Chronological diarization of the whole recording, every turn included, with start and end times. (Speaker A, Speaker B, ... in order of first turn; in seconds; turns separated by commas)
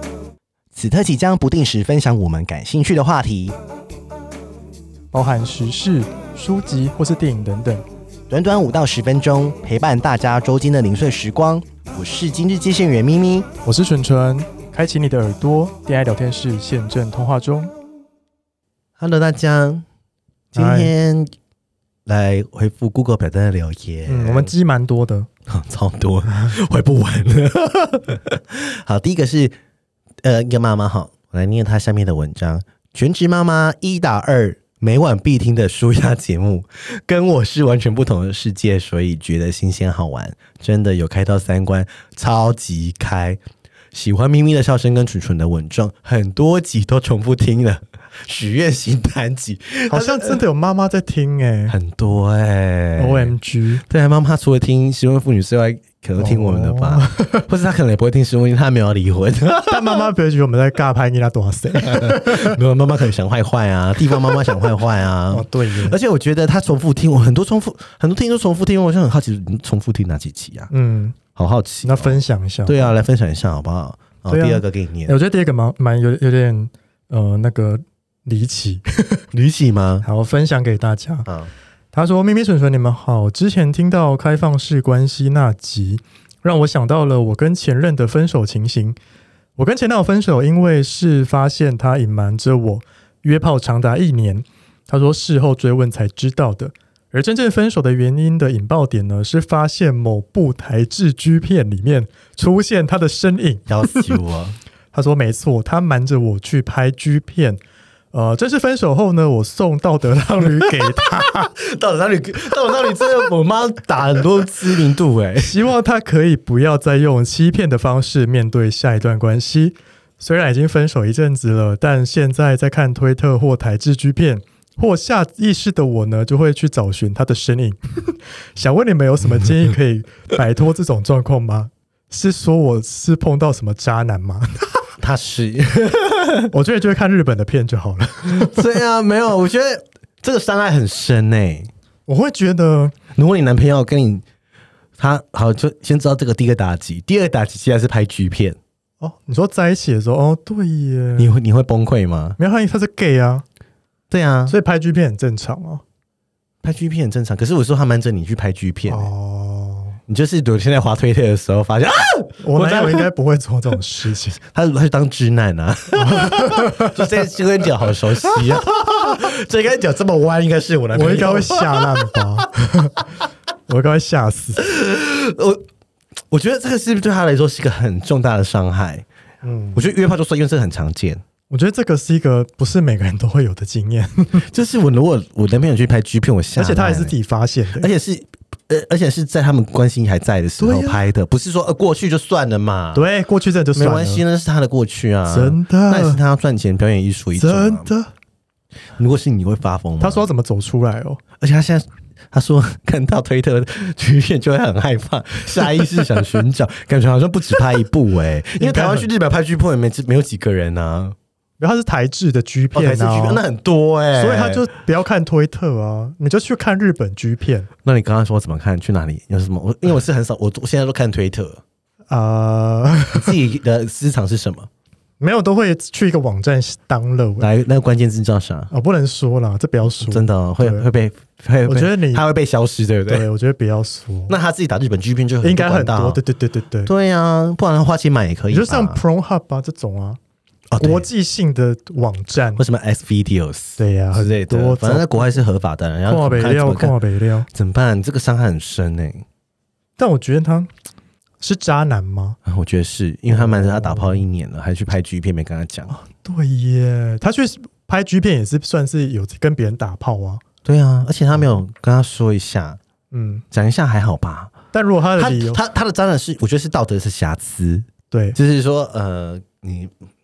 Speaker A: 0.7-3.5, Speaker B: 5.1-7.8, Speaker A: 8.3-13.5, Speaker B: 13.6-17.7, Speaker A: 19.0-19.8, Speaker A: 20.5-21.3, Speaker B: 20.6-20.9, Speaker A: 22.1-24.5, Speaker B: 24.1-25.3, Speaker A: 25.5-29.5, Speaker A: 30.2-43.4, Speaker A: 43.9-50.4, Speaker B: 49.9-51.7, Speaker A: 51.7-53.3, Speaker B: 53.0-53.8, Speaker A: 53.9-60.1, Speaker B: 56.2-57.5, Speaker B: 59.7-62.6, Speaker A: 61.7-70.7, Speaker B: 64.1-64.7, Speaker B: 65.3-66.0, Speaker B: 70.7-71.2, Speaker A: 71.3-75.2, Speaker B: 71.8-72.9, Speaker B: 74.3-79.2, Speaker A: 79.3-80.0, Speaker B: 80.0-81.3, Speaker B: 81.9-89.0, Speaker B: 89.6-104.0, Speaker A: 103.7-104.6, Speaker B: 104.9-107.6, Speaker B: 108.1-111.5, Speaker A: 110.6-115.5, Speaker B: 115.4-134.8, Speaker A: 135.0-136.5, Speaker B: 136.5-138.6, Speaker A: 138.2-141.7, Speaker B: 142.1-142.9, Speaker A: 143.2-144.2, Speaker A: 145.0-148.6, Speaker B: 149.0-151.3, Speaker A: 151.2-152.4, Speaker B: 152.4-153.4, Speaker A: 154.1-154.5, Speaker B: 154.5-155.8, Speaker A: 156.6-159.1, Speaker B: 158.9-160.0, Speaker A: 160.1-163.1, Speaker B: 162.4-164.4, Speaker A: 164.4-172.3, Speaker B: 166.0-167.0, Speaker B: 170.9-173.0, Speaker B: 173.7-174.6, Speaker A: 174.6-175.6, Speaker A: 176.3-179.1, Speaker B: 179.4-179.8, Speaker A: 179.7-181.2, Speaker B: 181.5-184.4, Speaker A: 184.4-187.1, Speaker B: 186.6-187.9, Speaker A: 187.8-193.1, Speaker B: 190.6-191.0, Speaker B: 192.9-194.2, Speaker A: 193.8-197.8, Speaker B: 195.3-196.2, Speaker B: 197.4-198.1, Speaker A: 199.0-200.3, Speaker B: 200.0-201.2, Speaker A: 201.4-211.1, Speaker B: 208.6-209.1, Speaker B: 211.6-213.4, Speaker A: 212.7-214.7, Speaker B: 214.2-217.7, Speaker A: 217.8-221.6, Speaker B: 222.1-223.3, Speaker A: 223.1-224.7, Speaker B: 225.2-227.5, Speaker A: 227.4-228.7, Speaker B: 228.7-230.8, Speaker A: 230.0-233.3, Speaker B: 231.7-232.2, Speaker B: 233.1-234.3, Speaker A: 234.3-236.2, Speaker B: 235.4-236.9, Speaker A: 236.8-239.0, Speaker B: 238.5-240.2, Speaker A: 240.7-241.1, Speaker B: 240.8-242.6, Speaker A: 242.6-247.0, Speaker B: 243.8-245.4, Speaker B: 246.1-247.5, Speaker A: 247.5-249.2, Speaker B: 250.0-250.7, Speaker B: 251.4-252.4, Speaker A: 252.4-255.9, Speaker B: 253.3-254.2, Speaker B: 255.9-260.4, Speaker A: 260.6-262.8, Speaker B: 263.1-263.4, Speaker A: 263.5-264.5, Speaker B: 264.7-265.6, Speaker A: 265.2-269.9, Speaker B: 268.1-268.4